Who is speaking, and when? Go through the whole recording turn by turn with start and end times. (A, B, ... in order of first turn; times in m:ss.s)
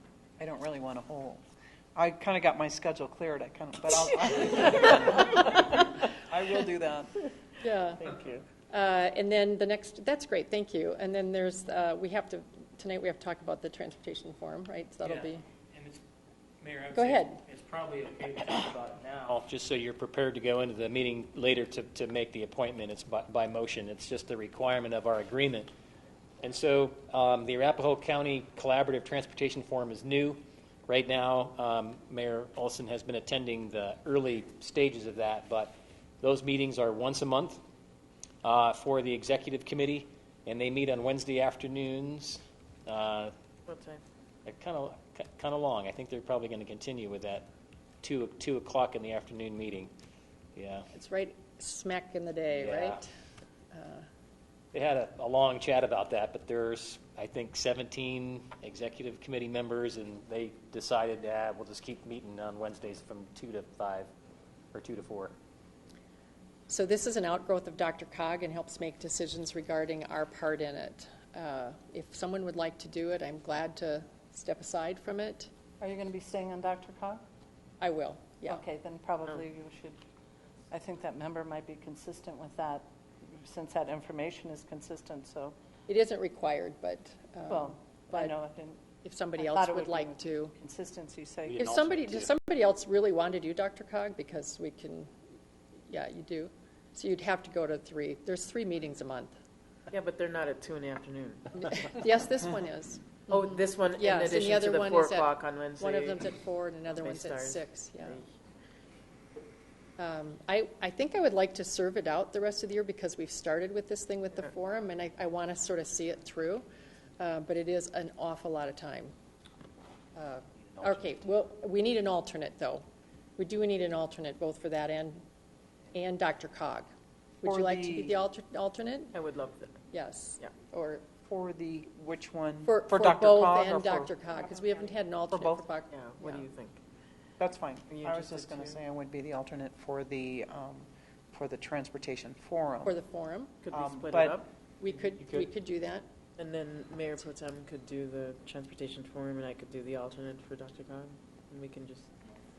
0:00.4-0:01.4 A
0:01.9-0:07.2 A
0:07.6-0:08.0 B
0:08.0-0:08.4 C
0:08.7-0:15.4 B
0:15.0-0:16.0 D
0:16.6-0:25.7 D
0:16.9-0:17.4 B
0:26.4-0:37.6 D
0:38.4-0:43.3 D
0:43.7-0:44.0 C
0:44.4-0:47.5 D
0:48.0-0:49.9 D
0:50.5-0:50.9 D
0:50.9-0:53.1 B
0:52.5-0:53.0 D
0:53.7-0:54.0 B
0:54.7-1:04.1 D
1:04.7-1:05.3 D
1:06.7-1:15.5 B
1:15.8-1:17.2 E
1:17.8-1:18.6 B
1:18.4-1:20.0 E
1:20.7-1:22.8 E
1:23.4-1:25.5 E
1:25.9-1:28.3 B
1:27.5-1:28.8 E
1:29.0-1:30.5 B
1:29.4-1:31.6 E
1:31.4-1:32.3 D
1:31.6-1:35.1 B
1:35.9-1:39.3 B
1:39.9-1:41.9 C
1:41.6-1:48.2 B
1:43.3-1:46.3 C
1:47.0-1:48.2 C
1:50.0-1:56.6 B
1:57.2-1:59.1 B
2:00.2-2:02.8 B
2:03.4-2:05.2 B
2:05.9-2:06.9 B
2:07.4-2:09.1 B
2:07.4-2:08.2 A
2:09.1-2:09.8 C
2:09.9-2:11.0 B
2:11.3-2:14.1 A
2:12.6-2:16.5 B
2:15.4-2:16.8 C
2:17.4-2:23.0 A
2:17.9-2:18.8 C
2:22.8-2:23.5 B
2:23.6-2:24.5 C
2:23.7-2:24.4 A
2:24.8-2:26.0 B
2:26.4-2:32.1 C